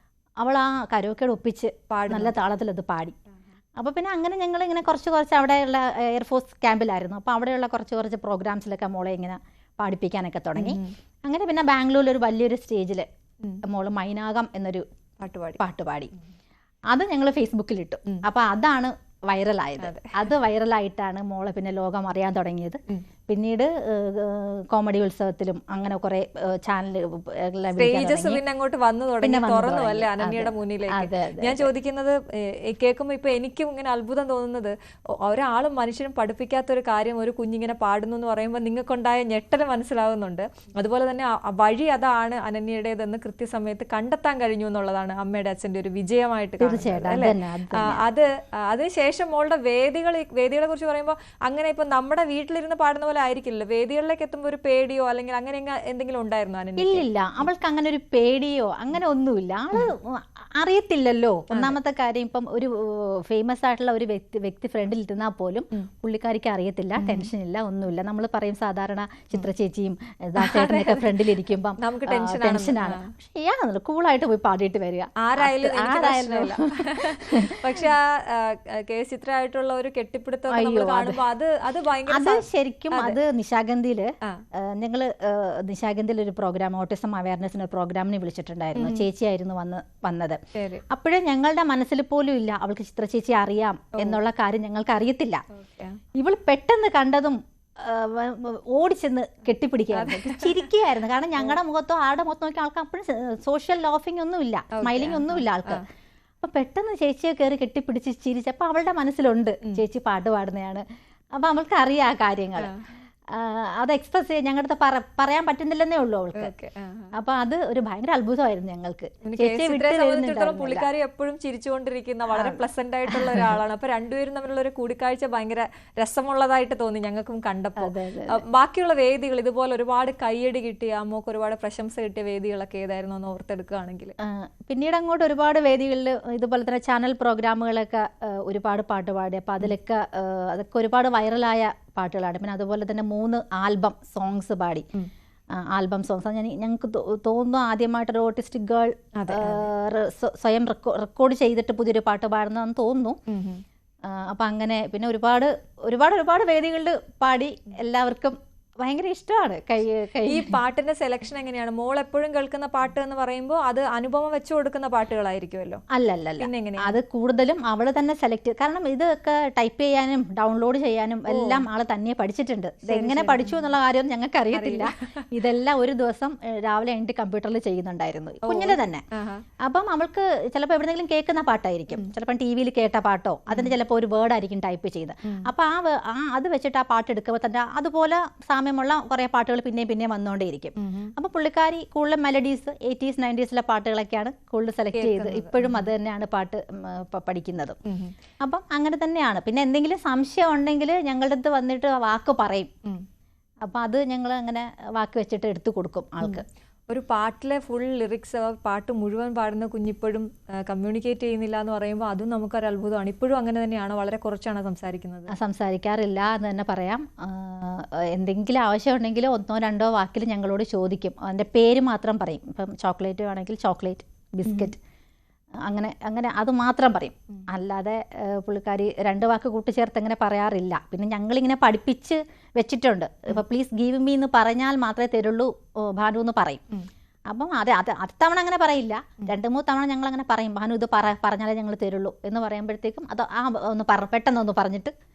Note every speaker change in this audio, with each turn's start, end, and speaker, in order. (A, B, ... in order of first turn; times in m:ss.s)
0:00.4-0:03.2 A
0:01.9-0:02.4 B
0:03.8-0:13.1 A
0:10.6-0:10.9 B
0:13.6-0:14.8 A
0:15.2-0:15.6 B
0:15.6-0:16.1 A
0:16.9-0:28.4 A
0:19.8-0:20.3 B
0:27.8-0:57.0 B
0:29.2-0:31.7 A
0:46.6-0:48.0 A
0:56.8-1:17.7 A
1:01.5-1:01.8 B
1:07.0-1:07.3 B
1:10.4-1:11.2 B
1:11.8-1:13.1 B
1:15.2-1:23.2 B
1:20.5-1:21.2 A
1:22.1-1:30.4 A
1:28.8-1:29.1 B
1:30.6-1:30.8 B
1:30.9-1:35.4 A
1:35.5-1:36.0 B
1:36.2-1:45.8 A
1:39.9-1:40.7 B
1:44.7-1:45.8 B
1:46.4-1:50.8 A
1:51.4-1:52.7 A
1:53.3-1:56.5 A
1:56.4-1:57.1 B
1:57.2-2:00.9 A
1:59.2-2:14.2 B
2:02.3-2:03.6 A
2:07.8-2:08.4 A
2:14.2-2:24.9 A
2:25.6-2:33.2 A
2:29.2-2:29.7 B
2:33.3-2:33.6 B
2:34.1-2:40.6 A
2:40.3-2:45.8 B
2:45.9-2:59.0 A
2:46.4-2:47.0 B
2:51.3-2:51.7 B
2:52.8-2:53.6 B
2:54.5-2:55.0 B
2:58.4-2:59.4 B
2:59.6-3:17.8 A
3:10.8-3:11.1 B
3:14.9-3:15.9 B
3:17.8-3:18.1 B
3:18.4-3:22.7 A
3:23.6-3:26.4 A
3:26.2-3:35.3 B
3:35.3-3:44.8 A
3:44.5-3:44.7 B
3:45.7-3:56.6 A
3:57.3-4:04.9 A